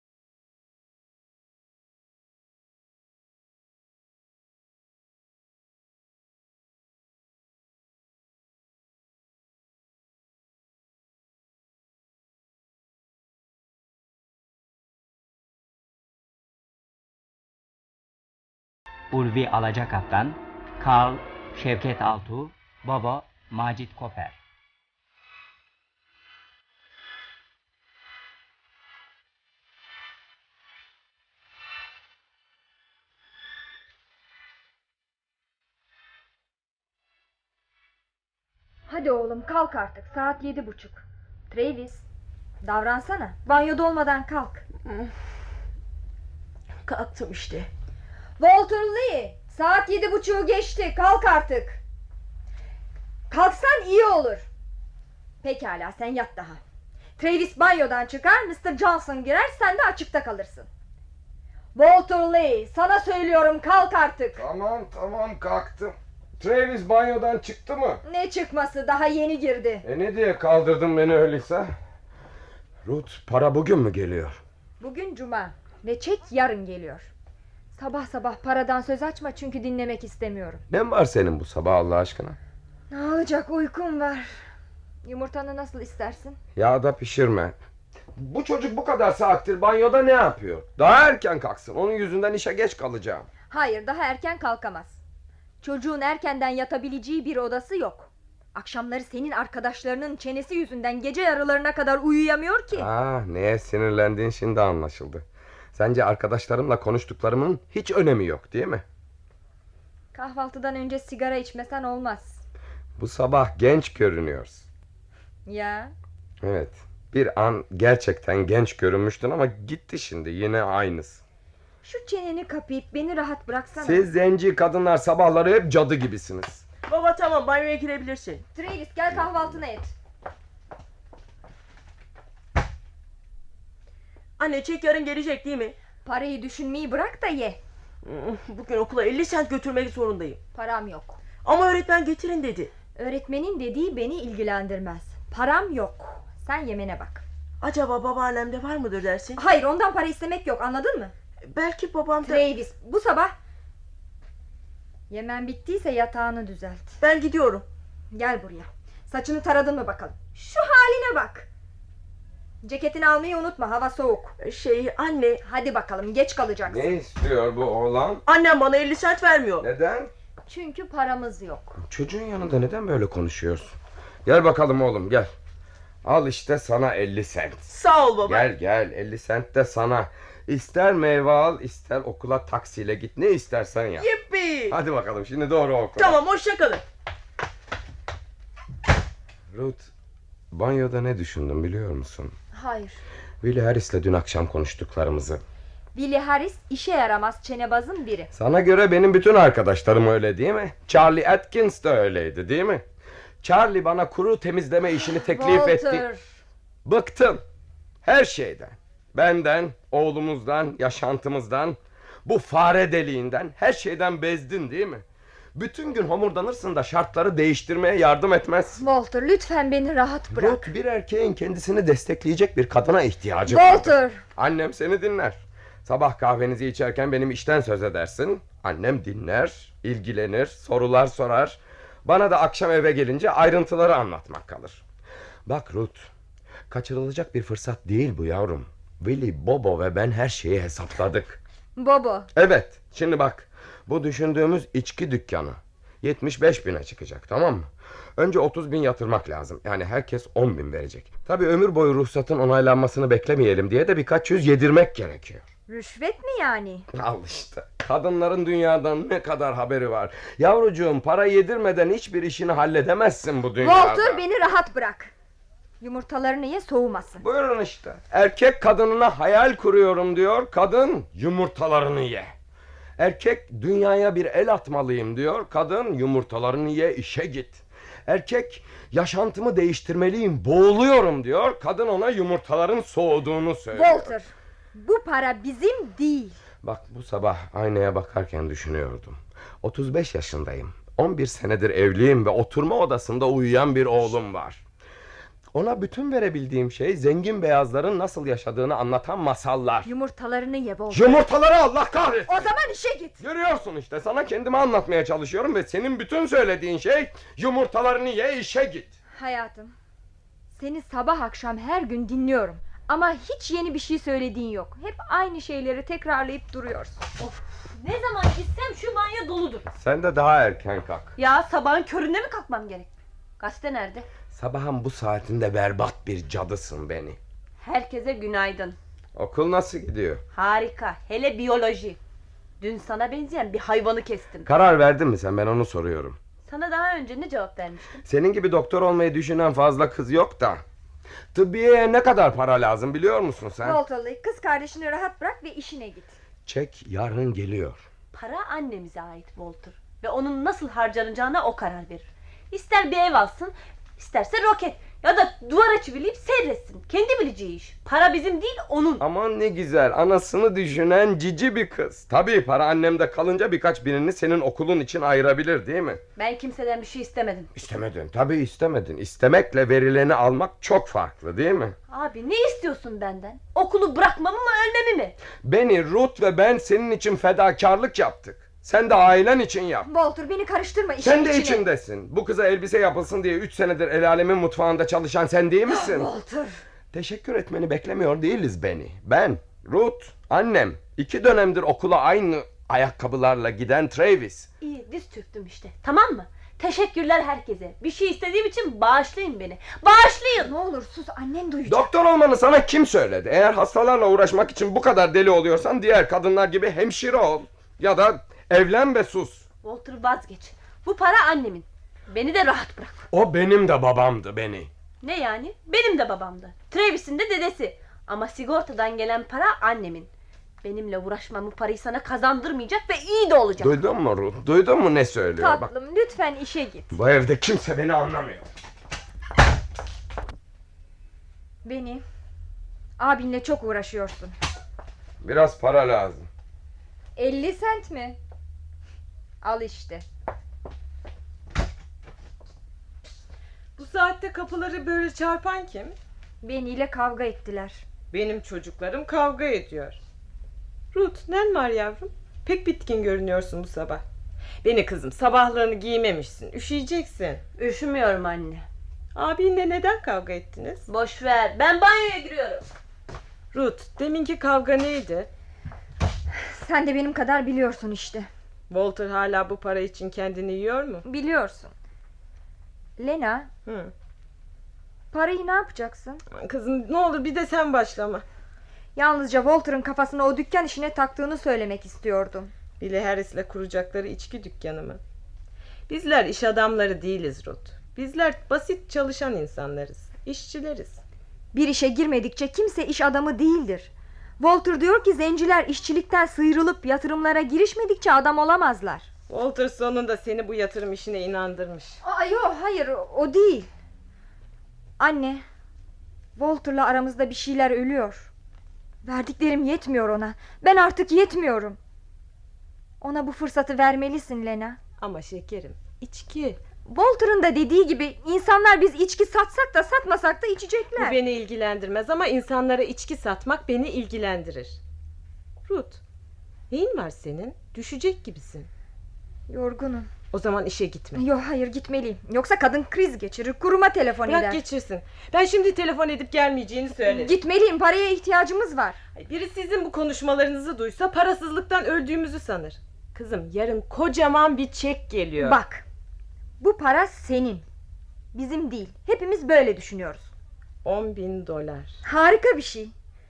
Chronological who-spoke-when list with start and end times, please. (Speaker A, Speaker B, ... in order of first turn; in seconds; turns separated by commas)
Speaker A: 19.1-24.4, Speaker B: 38.9-42.0, Speaker B: 42.6-44.6, Speaker C: 44.9-45.1, Speaker C: 46.8-47.7, Speaker B: 48.4-51.8, Speaker B: 53.3-54.5, Speaker B: 55.4-56.6, Speaker B: 57.2-60.7, Speaker B: 61.8-64.4, Speaker D: 64.4-68.0, Speaker B: 68.0-69.8, Speaker D: 69.8-71.8, Speaker D: 72.8-74.4, Speaker B: 74.8-77.1, Speaker B: 77.7-80.6, Speaker D: 80.7-82.4, Speaker B: 82.9-84.4, Speaker B: 85.0-86.4, Speaker D: 86.6-87.5, Speaker D: 88.2-93.3, Speaker B: 93.5-95.0, Speaker B: 95.6-102.9, Speaker D: 102.7-108.8, Speaker B: 110.1-112.4, Speaker D: 113.0-114.7, Speaker B: 115.5-115.9, Speaker D: 116.4-121.2, Speaker B: 121.8-124.1, Speaker D: 123.8-126.6, Speaker C: 126.9-128.4, Speaker B: 128.5-129.9, Speaker C: 134.4-135.8, Speaker B: 136.1-137.6, Speaker C: 138.0-140.4, Speaker B: 140.5-141.2, Speaker C: 141.4-142.7, Speaker B: 143.0-147.2, Speaker C: 147.6-149.4, Speaker B: 149.4-151.1, Speaker C: 151.4-152.5, Speaker B: 152.2-153.3, Speaker B: 155.1-156.9, Speaker C: 157.0-157.7, Speaker B: 158.1-161.5, Speaker B: 162.6-164.3, Speaker C: 164.4-165.4, Speaker B: 165.4-166.9, Speaker D: 166.7-168.2, Speaker C: 168.3-169.7, Speaker D: 169.6-170.1, Speaker B: 170.5-171.8, Speaker D: 171.8-173.7, Speaker D: 174.2-175.3, Speaker D: 176.0-177.7, Speaker C: 177.7-178.5, Speaker D: 178.2-184.1, Speaker C: 184.0-184.8, Speaker D: 184.7-186.2, Speaker C: 186.0-186.8, Speaker D: 189.5-189.9, Speaker D: 190.5-192.3, Speaker B: 192.5-193.0, Speaker D: 193.4-195.4, Speaker B: 195.9-198.3, Speaker D: 198.3-202.8, Speaker D: 203.4-206.1, Speaker B: 205.0-206.2, Speaker D: 206.8-207.4, Speaker D: 208.0-215.0, Speaker D: 215.6-218.8, Speaker B: 218.8-220.7, Speaker D: 220.3-234.8, Speaker B: 223.5-224.2, Speaker D: 235.5-236.1, Speaker D: 236.7-241.4, Speaker B: 241.8-242.3, Speaker D: 242.3-255.4, Speaker B: 255.7-256.9, Speaker D: 256.9-264.2, Speaker B: 263.6-265.1, Speaker B: 265.8-267.2, Speaker D: 267.2-272.3, Speaker D: 273.0-284.1, Speaker B: 283.7-286.4, Speaker D: 286.6-294.6, Speaker D: 295.5-299.9, Speaker B: 299.9-301.3, Speaker D: 300.9-302.5, Speaker B: 302.3-303.2, Speaker D: 303.2-309.0, Speaker B: 309.1-309.7, Speaker B: 310.5-317.0, Speaker E: 317.2-319.7, Speaker D: 319.8-321.1, Speaker E: 321.2-324.1, Speaker D: 324.3-327.2, Speaker E: 327.6-328.8, Speaker D: 329.1-330.2, Speaker E: 330.3-332.0, Speaker E: 332.6-334.5, Speaker D: 334.5-336.2, Speaker E: 336.5-338.0, Speaker D: 338.1-340.6, Speaker D: 341.3-343.8, Speaker B: 343.6-346.1, Speaker D: 346.5-347.9, Speaker E: 348.1-359.1, Speaker D: 359.0-366.0, Speaker E: 366.2-367.5, Speaker D: 367.6-371.8, Speaker E: 371.9-375.2, Speaker D: 375.4-379.9, Speaker B: 379.9-381.6, Speaker D: 381.0-386.1, Speaker B: 385.7-386.6, Speaker D: 386.9-394.5, Speaker E: 394.6-400.5, Speaker B: 400.4-401.9, Speaker D: 401.7-409.4, Speaker E: 409.6-413.0, Speaker D: 413.1-414.7, Speaker E: 415.0-420.1, Speaker E: 420.6-423.7, Speaker D: 423.6-425.7, Speaker B: 425.4-427.0, Speaker D: 426.9-428.5, Speaker B: 431.6-432.0, Speaker B: 433.0-434.4, Speaker D: 435.2-436.3, Speaker B: 437.2-438.2, Speaker B: 439.4-440.1, Speaker F: 443.8-446.0, Speaker B: 446.4-447.8, Speaker F: 448.1-450.0, Speaker F: 450.9-454.0, Speaker F: 454.6-457.4, Speaker E: 457.6-458.7, Speaker F: 459.1-460.9, Speaker E: 460.9-462.7, Speaker F: 463.5-465.3, Speaker B: 466.4-468.3, Speaker F: 468.7-471.0, Speaker B: 471.1-471.7, Speaker B: 473.0-473.5, Speaker F: 473.7-473.9, Speaker B: 475.1-476.2, Speaker F: 476.4-478.2, Speaker B: 478.9-482.5, Speaker F: 482.8-485.0, Speaker F: 485.9-491.0, Speaker B: 491.5-499.1, Speaker F: 499.3-502.0, Speaker B: 502.0-503.7, Speaker B: 505.0-505.4, Speaker B: 506.4-508.3, Speaker B: 509.0-511.8, Speaker B: 513.0-514.8, Speaker F: 515.0-516.6, Speaker B: 516.9-521.2, Speaker F: 521.0-524.8, Speaker F: 525.7-526.0, Speaker F: 526.7-528.7, Speaker B: 529.5-530.1, Speaker F: 530.3-531.2, Speaker B: 531.2-534.6, Speaker F: 534.3-537.3, Speaker B: 537.0-539.0, Speaker F: 539.1-545.6, Speaker B: 545.4-545.9, Speaker B: 546.6-547.6, Speaker B: 548.3-550.3, Speaker F: 550.9-552.0, Speaker B: 552.0-552.9